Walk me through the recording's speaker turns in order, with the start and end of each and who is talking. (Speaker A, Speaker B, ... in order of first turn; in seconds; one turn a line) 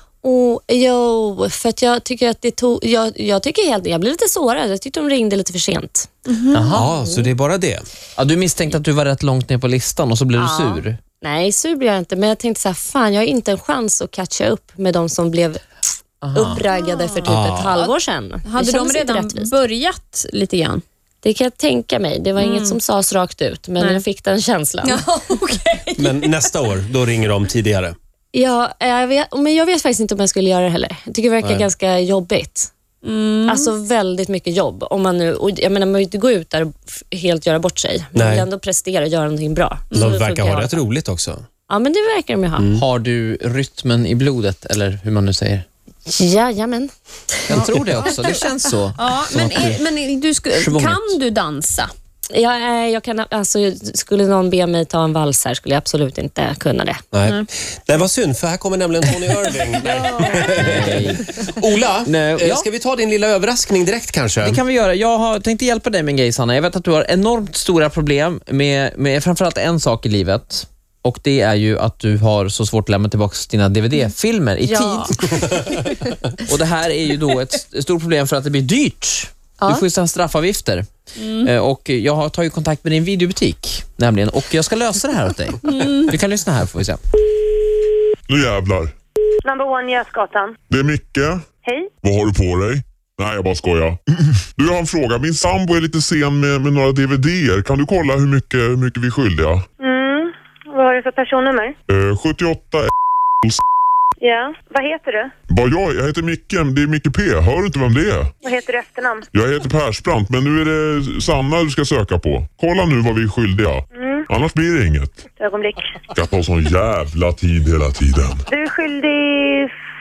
Speaker A: 0.2-6.1
Speaker B: 6.3-6.7
Speaker C: 6.5-6.9
Speaker D: 6.7-7.9
Speaker A: 7.1-7.3
Speaker C: 8.2-11.0
Speaker A: 10.3-15.7
Speaker C: 16.2-16.6
Speaker A: 16.3-19.6
Speaker B: 16.8-17.2
Speaker D: 17.2-17.7
Speaker B: 18.4-20.8
Speaker A: 21.2-25.0
Speaker B: 22.4-22.8
Speaker B: 24.8-26.3
Speaker D: 26.0-28.0
Speaker A: 28.3-32.7
Speaker D: 31.4-31.7
Speaker B: 33.0-33.7
Speaker A: 33.5-40.8
Speaker D: 38.1-38.5
Speaker D: 39.9-41.4
Speaker A: 41.7-42.7
Speaker D: 42.6-42.9
Speaker C: 42.8-45.7
Speaker A: 46.1-47.7
Speaker C: 47.5-49.8
Speaker B: 49.0-51.9
Speaker C: 50.5-51.2
Speaker A: 52.3-57.0
Speaker D: 57.1-64.6
Speaker A: 60.1-60.4
Speaker C: 60.5-61.3
Speaker C: 62.0-62.7
Speaker C: 64.4-75.4
Speaker A: 74.6-75.2
Speaker C: 76.5-87.0
Speaker B: 81.2-81.5
Speaker B: 85.7-86.1
Speaker E: 88.3-88.9
Speaker F: 89.5-90.6
Speaker E: 90.7-91.5
Speaker F: 91.7-91.9
Speaker E: 92.0-99.7
Speaker F: 99.8-101.8
Speaker E: 101.9-102.9
Speaker F: 104.2-105.3
Speaker E: 105.5-108.3
Speaker F: 108.4-109.3
Speaker E: 109.3-115.2
Speaker F: 114.0-114.3
Speaker F: 115.4-116.0
Speaker E: 116.1-118.5
Speaker F: 118.5-119.7